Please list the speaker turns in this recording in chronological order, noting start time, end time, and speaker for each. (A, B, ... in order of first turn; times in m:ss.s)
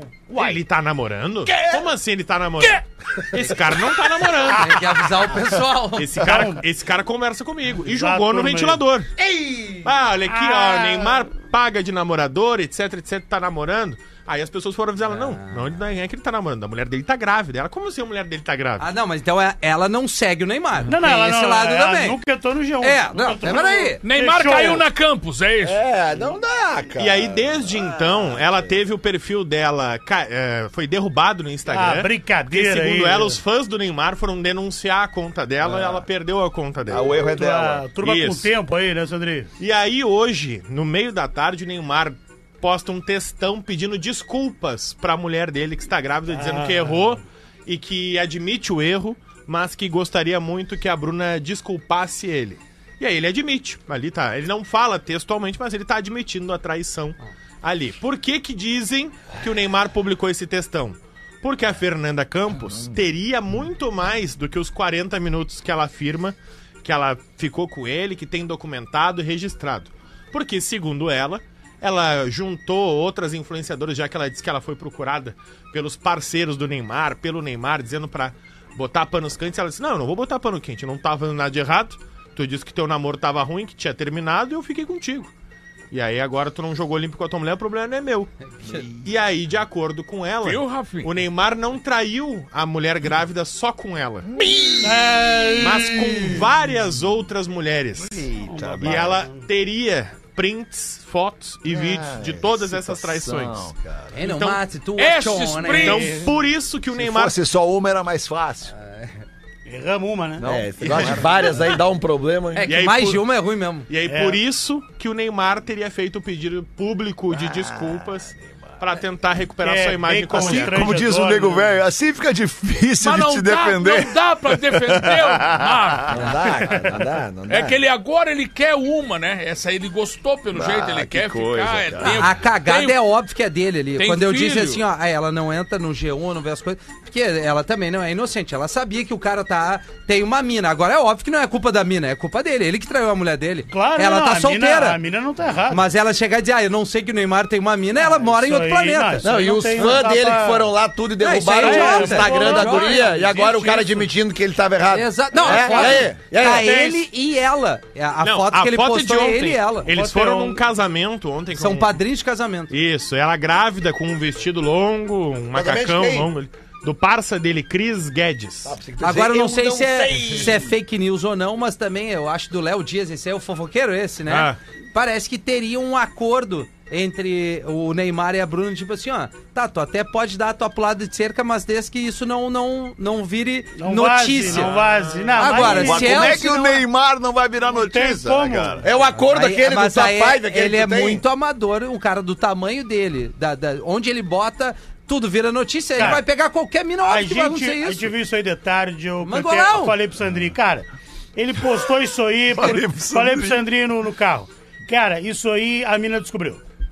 0:00.3-0:04.8 A
0:04.5-0:06.3 B
0:06.0-0:09.1 A
0:06.2-0:06.6 C
0:07.8-0:08.8 C
0:09.2-0:09.8 D
0:09.8-0:18.9 A
0:10.3-0:11.3 C
0:15.1-0:15.7 B
0:18.8-0:22.2 B
0:20.9-0:24.9 C
0:22.8-0:24.0 B
0:24.0-0:25.8 E
0:25.6-0:28.7 D
0:27.0-0:37.1 A
0:31.7-0:33.4 C
0:36.9-0:37.9 F
0:37.1-0:39.5 C
0:38.0-0:38.5 A
0:39.6-1:25.3 A
0:46.3-0:47.2 C
1:25.9-1:28.3 A
1:28.9-1:34.3 A
1:30.4-1:31.1 E
1:34.3-1:36.5 F
1:34.8-1:36.0 C
1:35.6-1:38.3 A
1:38.0-1:39.3 F
1:38.5-1:39.4 C
1:38.8-1:44.6 A
1:41.7-1:44.2 F
1:44.1-1:46.2 B
1:45.0-1:46.3 E
1:45.6-1:47.4 A
1:46.9-1:48.7 F
1:48.9-1:49.1 B
1:49.7-1:50.4 C
1:50.4-1:51.7 F
1:50.4-1:52.7 D
1:50.8-1:51.2 A
1:52.6-1:53.9 B
1:52.7-1:53.2 A
1:53.9-2:00.8 A
1:54.1-1:54.4 C
1:57.3-1:58.6 F
1:59.6-2:01.7 C
2:00.3-2:06.2 F
2:03.0-2:06.5 E
2:06.1-2:07.8 D
2:07.5-2:13.0 E
2:10.5-2:12.2 F
2:12.0-2:25.0 B
2:14.0-2:14.8 E
2:23.7-2:25.8 C
2:25.7-2:29.3 B
2:28.0-2:30.7 C
2:29.2-2:37.0 D
2:31.2-2:33.2 B
2:31.6-2:34.1 C
2:34.9-2:39.9 B
2:35.4-2:36.0 C
2:38.2-2:42.0 A
2:39.8-2:40.6 C
2:41.6-2:42.7 B
2:42.7-2:48.8 A
2:45.5-2:46.3 D
2:48.6-2:50.7 D
2:49.0-3:04.7 B
2:54.3-2:54.6 A
3:03.8-3:06.6 C
3:04.5-3:05.6 A
3:05.4-3:06.8 B
3:05.6-3:08.8 F
3:07.7-3:08.8 C
3:08.8-3:11.2 D
3:09.1-3:18.1 B
3:16.0-3:16.2 C
3:17.0-3:26.6 C
3:19.2-3:20.0 B
3:22.5-3:23.6 F